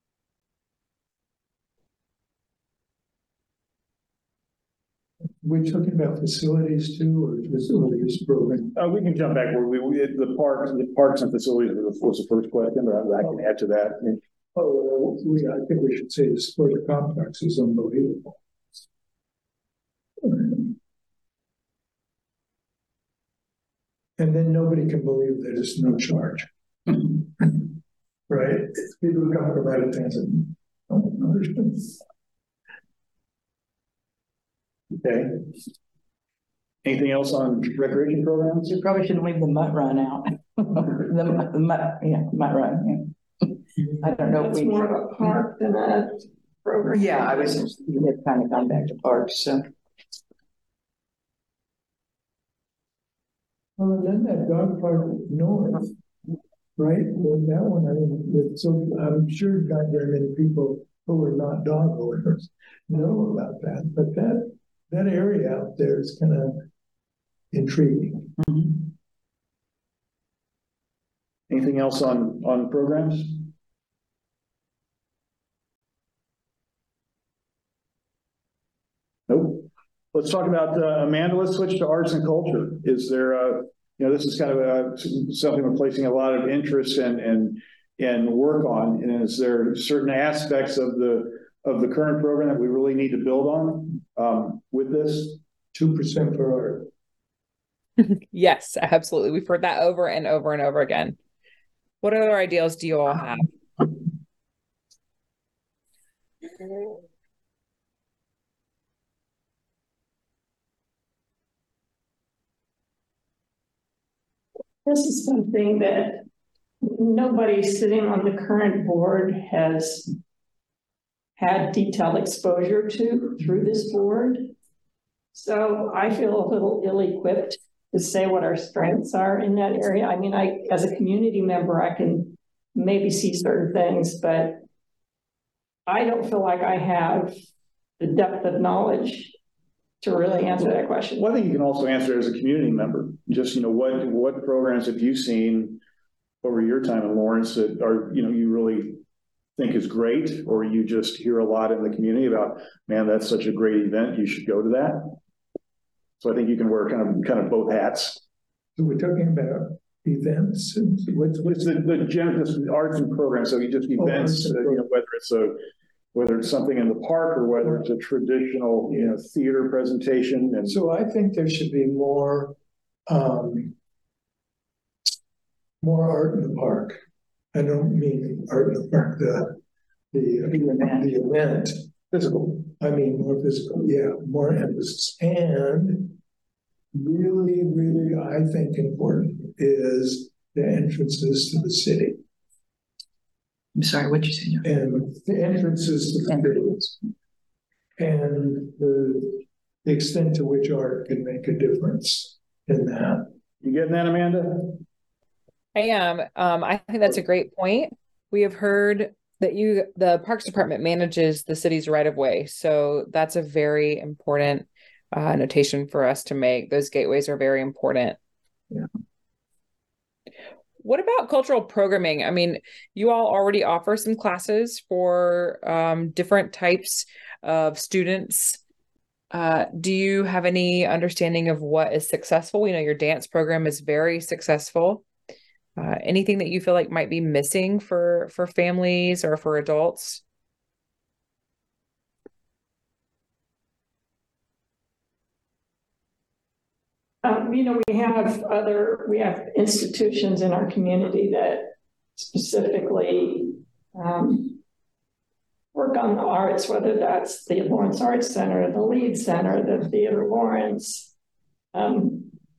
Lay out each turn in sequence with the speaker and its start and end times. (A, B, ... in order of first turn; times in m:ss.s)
0:05.4-0:08.8 A
0:08.8-0:14.2 B
0:14.6-0:18.4 A
0:20.2-0:20.7 A
0:24.2-0:27.7 A
0:28.3-0:32.0 A
0:35.0-0:35.5 B
0:36.8-0:38.7 B
0:38.7-0:43.2 C
0:44.0-0:45.1 C
0:44.3-0:47.7 D
0:46.9-0:49.7 C
0:53.8-0:56.0 A
0:56.8-1:06.7 A
1:07.5-1:08.5 A
1:11.5-1:13.5 B
1:19.3-1:35.4 B
1:35.7-1:36.9 A
1:38.0-1:41.2 E
1:42.0-1:43.5 E
1:54.8-1:56.2 D
1:56.8-2:00.1 D
2:01.4-2:04.5 D
2:05.3-2:14.6 D
2:15.9-2:17.4 D
2:18.0-2:19.4 D
2:20.0-2:21.3 D
2:21.2-2:25.8 B
2:26.4-2:29.0 B
2:29.6-2:35.2 B
2:36.2-2:38.2 B
2:38.8-2:41.6 A
2:41.4-2:45.6 B
2:44.0-2:44.9 A
2:46.1-2:50.8 B
2:50.6-2:52.6 A
2:53.1-2:53.8 A
2:55.8-2:57.0 A
2:57.5-2:59.6 A
3:00.1-3:01.8 A
3:02.1-3:02.6 B
3:02.6-3:06.2 A
3:06.9-3:12.2 A
3:13.8-3:14.7 C
3:14.6-3:16.9 A
3:18.0-3:23.3 A
3:23.6-3:24.8 B
3:25.8-3:38.2 E
3:40.8-3:48.6 E
3:49.3-3:55.0 E
3:55.8-4:00.2 E
4:07.2-4:14.6 D
4:15.7-4:21.1 D
4:21.7-4:22.3 D